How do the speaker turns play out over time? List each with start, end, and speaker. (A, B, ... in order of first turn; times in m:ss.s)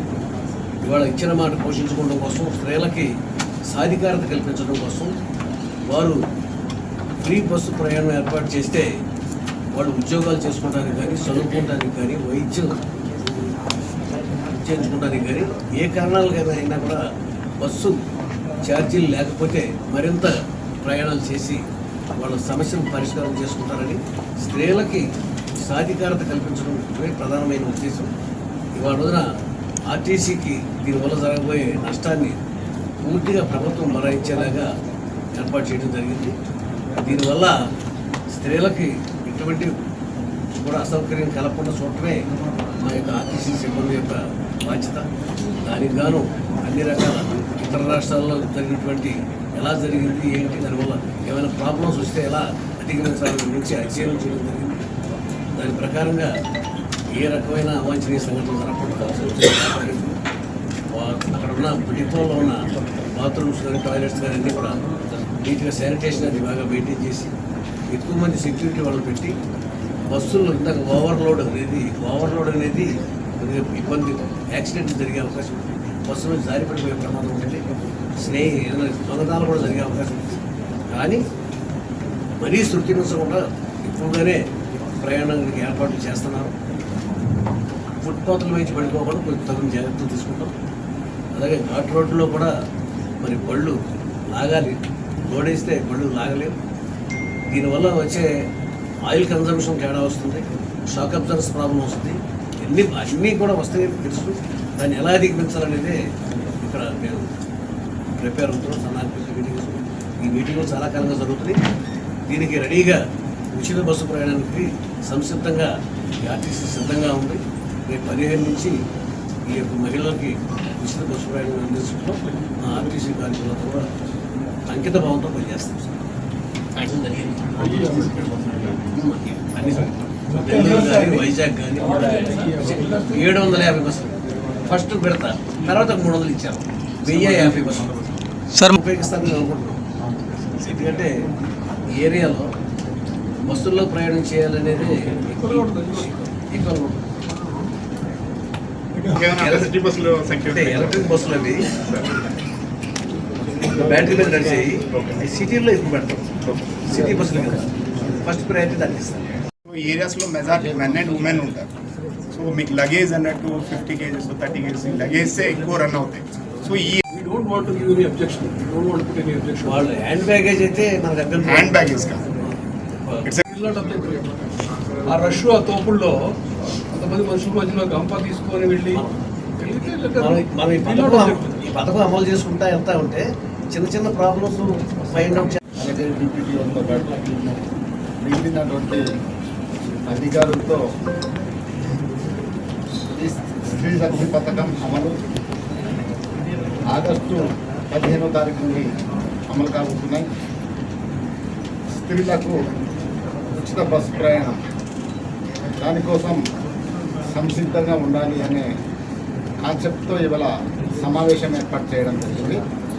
0:00.8-0:03.1 A
0:03.7-0:05.1 A
0:05.9-0:06.2 A
0:07.2-0:08.9 A
0:09.7-0:12.7 A
0:14.5-0:17.0 A
0:17.6-0:18.0 A
0:18.6-0:21.6 A
0:22.2-0:25.0 A
0:25.6-0:28.1 A
0:28.8-0:29.2 A
0:29.9-0:32.4 A
0:33.0-0:34.7 A
0:35.3-0:36.3 A
0:37.0-0:37.5 A
0:38.4-0:39.7 A
0:40.6-0:42.2 A
0:42.8-0:45.0 A
0:45.7-0:54.8 A
0:55.6-0:56.3 A
0:57.2-1:00.2 A
1:00.9-1:04.8 A
1:05.4-1:07.3 A
1:07.9-1:09.3 A
1:10.1-1:12.9 A
1:13.4-1:17.6 A
1:18.2-1:20.4 A
1:20.9-1:21.2 A
1:22.4-1:24.4 A
1:25.0-1:26.5 A
1:28.0-1:30.5 A
1:31.4-1:32.5 A
1:33.2-1:33.8 A
1:34.3-1:34.8 A
1:35.3-1:36.5 A
1:37.5-1:38.3 A
1:39.1-1:46.0 A
1:46.6-1:47.2 A
1:48.2-1:51.6 A
1:52.3-1:53.0 A
1:53.6-1:55.7 A
1:56.2-1:58.7 A
1:59.5-2:03.8 A
2:04.7-2:05.9 A
2:06.8-2:07.9 A
2:07.6-2:08.2 B
2:08.6-2:14.1 A
2:12.1-2:12.8 B
2:14.7-2:18.0 A
2:18.8-2:19.8 A
2:20.6-2:21.1 A
2:22.0-2:22.5 A
2:23.5-2:27.0 A
2:25.3-2:26.3 B
2:29.0-2:31.4 C
2:29.1-2:29.7 A
2:30.4-2:31.7 A
2:33.8-2:36.3 A
2:36.9-2:37.7 A
2:38.2-2:39.2 A
2:39.7-2:41.7 C
2:42.3-2:47.0 C
2:47.1-2:49.9 B
2:49.7-2:53.4 A
2:51.4-2:52.2 C
2:53.4-2:54.4 B
2:55.0-2:56.2 B
2:56.9-2:59.1 B
2:58.9-2:59.2 A
2:59.6-3:01.6 B
3:00.2-3:05.6 A
3:05.8-3:07.6 D
3:08.2-3:09.0 D
3:10.1-3:10.8 D
3:13.2-3:15.1 D
3:16.9-3:18.9 D
3:19.5-3:20.3 D
3:22.0-3:22.6 D
3:23.5-3:24.6 D
3:25.8-3:26.4 D
3:27.2-3:28.7 D
3:29.6-3:32.6 D